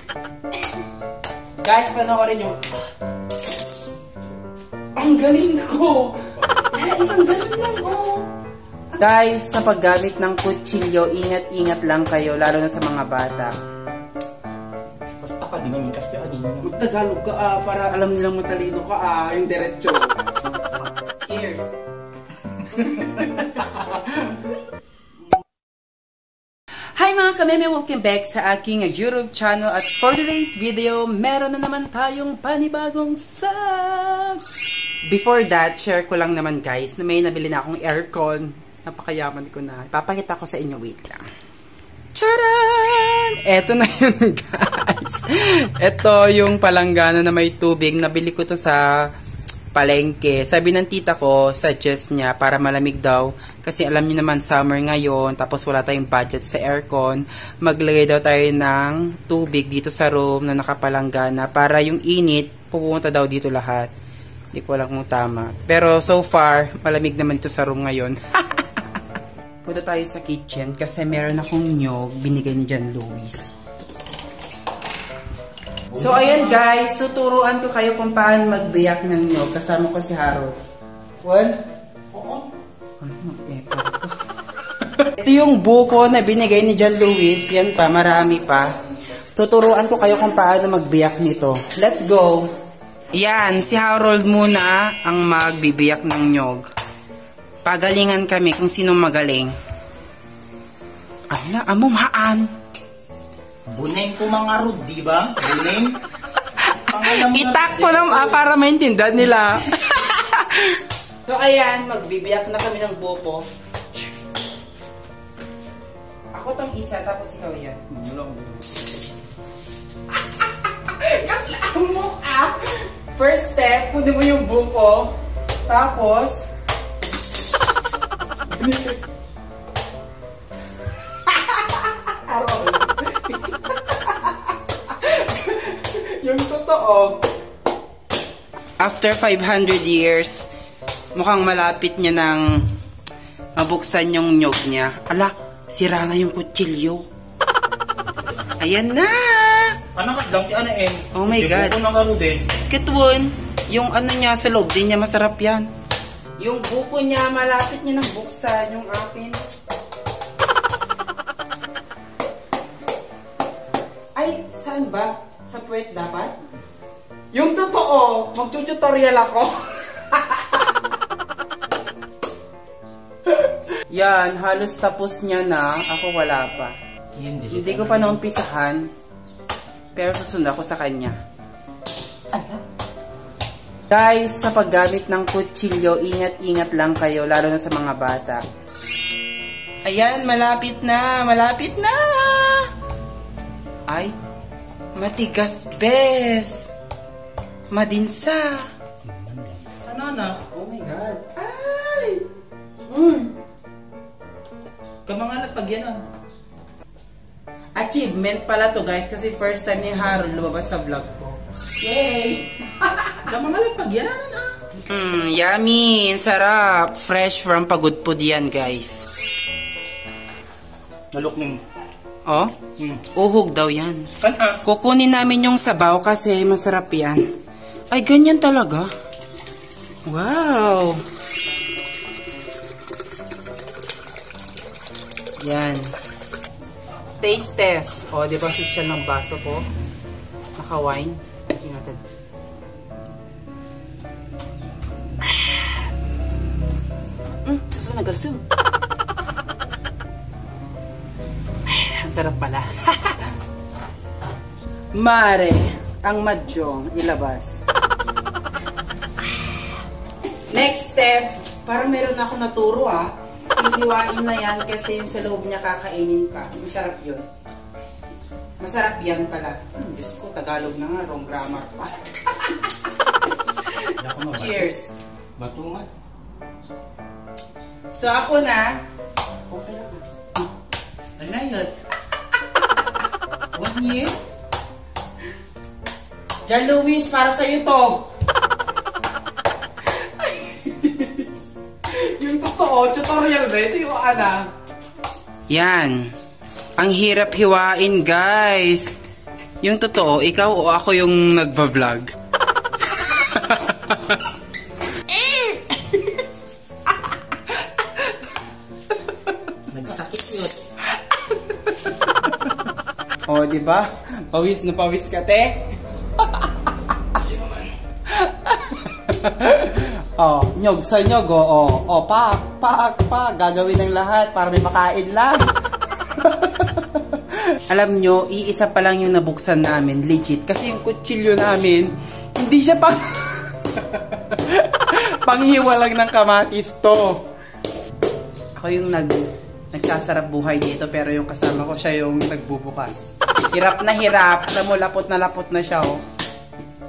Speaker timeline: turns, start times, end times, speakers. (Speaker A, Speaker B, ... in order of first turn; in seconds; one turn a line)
Speaker A: 1.6-2.8
Speaker A: 5.0-8.3
Speaker A: 8.9-13.5
Speaker B: 15.2-16.7
Speaker A: 16.6-20.1
Speaker A: 21.2-21.7
Speaker A: 22.7-24.6
Speaker B: 22.7-23.4
Speaker A: 26.9-34.4
Speaker A: 35.1-41.2
Speaker A: 42.1-49.1
Speaker A: 49.7-63.9
Speaker A: 64.5-69.0
Speaker A: 69.6-73.5
Speaker B: 75.9-76.6
Speaker A: 76.0-80.5
Speaker A: 81.2-81.6
Speaker B: 82.1-82.5
Speaker A: 83.0-84.2
Speaker A: 84.7-88.7
Speaker A: 89.4-92.5
Speaker A: 93.1-96.7
Speaker A: 97.7-99.5
Speaker A: 101.3-102.5
Speaker B: 103.7-106.0
Speaker A: 106.6-113.5
Speaker B: 106.8-108.5
Speaker A: 116.3-117.8
Speaker B: 117.9-118.8
Speaker A: 120.3-125.2
Speaker A: 125.7-126.4
Speaker A: 128.5-129.0
Speaker A: 130.8-137.2
Speaker A: 138.8-140.5
Speaker A: 141.1-142.7
Speaker A: 143.6-147.1
Speaker B: 148.0-148.6
Speaker A: 148.6-149.8
Speaker B: 149.9-152.5
Speaker A: 151.1-151.8
Speaker A: 152.7-155.7
Speaker A: 156.4-159.4
Speaker A: 164.2-166.4
Speaker A: 167.3-170.8
Speaker A: 173.3-176.8
Speaker B: 177.2-178.2
Speaker A: 177.5-178.9
Speaker A: 179.9-181.2
Speaker A: 183.9-188.4
Speaker A: 189.8-192.7
Speaker A: 195.0-196.7
Speaker A: 197.7-198.7
Speaker B: 199.1-200.4
Speaker A: 200.5-202.2
Speaker A: 202.9-203.3
Speaker B: 205.1-206.1
Speaker A: 207.8-213.3
Speaker B: 213.3-214.6
Speaker A: 214.9-219.1
Speaker B: 221.1-221.6
Speaker A: 222.3-222.6
Speaker B: 222.8-223.1
Speaker A: 223.1-224.1
Speaker B: 224.2-224.6
Speaker A: 224.6-227.2
Speaker A: 227.9-228.9
Speaker A: 230.1-231.0
Speaker A: 235.4-235.9
Speaker A: 237.2-239.7
Speaker A: 240.6-242.0
Speaker A: 247.4-248.4
Speaker A: 251.7-253.3
Speaker A: 254.9-257.6
Speaker A: 260.5-267.3
Speaker A: 268.6-272.5
Speaker A: 273.7-274.9
Speaker B: 274.0-274.7
Speaker B: 275.4-275.9
Speaker A: 277.9-278.8
Speaker A: 279.5-280.0
Speaker B: 281.2-281.7
Speaker B: 283.5-284.2
Speaker A: 286.5-288.1
Speaker A: 289.9-291.3
Speaker A: 291.9-294.5
Speaker A: 295.5-296.1
Speaker A: 296.8-298.9
Speaker A: 299.6-302.1
Speaker A: 303.0-304.2
Speaker A: 305.1-306.1
Speaker A: 307.5-308.1
Speaker B: 309.7-310.6
Speaker A: 310.9-311.9
Speaker A: 313.3-315.6
Speaker A: 316.2-316.5
Speaker A: 318.1-325.5
Speaker A: 326.1-337.2
Speaker A: 338.6-346.0